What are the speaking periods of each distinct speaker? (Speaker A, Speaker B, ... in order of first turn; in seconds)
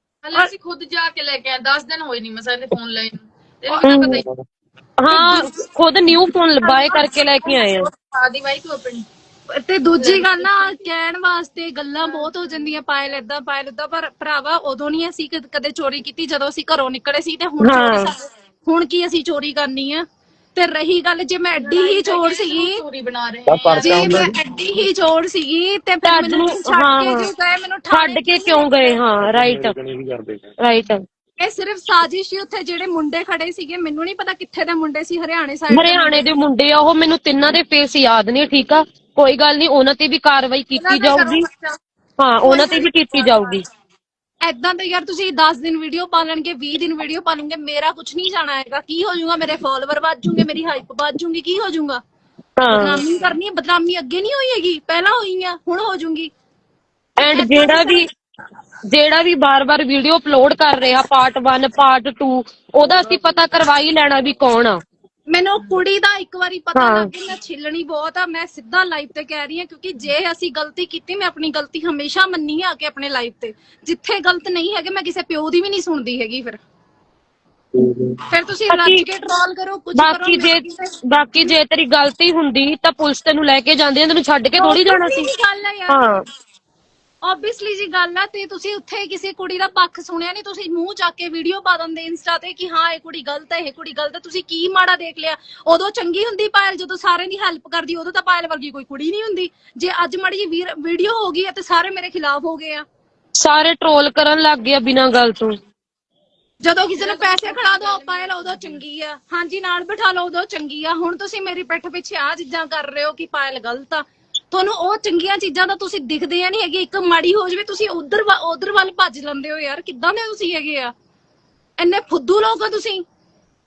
Speaker A: 0.2-4.2, 5.1-5.5, 6.2-9.1, 9.9-10.9, 12.0-12.3, 21.6-24.2, 40.8-41.8, 42.8-43.6, 106.9-108.8
Speaker B: 3.8-4.2, 5.0-7.9, 17.6-18.1, 26.1-27.3, 27.9-29.8, 30.6-31.0, 35.7-41.5, 42.2-43.6, 52.6-53.0, 57.2-58.0, 58.9-64.8, 66.8-67.1, 78.7-79.0, 80.0-85.3, 85.9-86.2, 103.4-105.5
Speaker C: 9.5-20.0, 20.6-22.8, 23.8-29.0, 31.4-36.3, 42.4-42.8, 44.5-52.0, 52.7-56.3, 57.2-58.0, 65.3-76.6, 78.3-81.6, 84.6-86.1, 87.2-102.8, 106.6-120.9, 121.8-123.0
Speaker D: 23.5-24.4, 29.2-30.5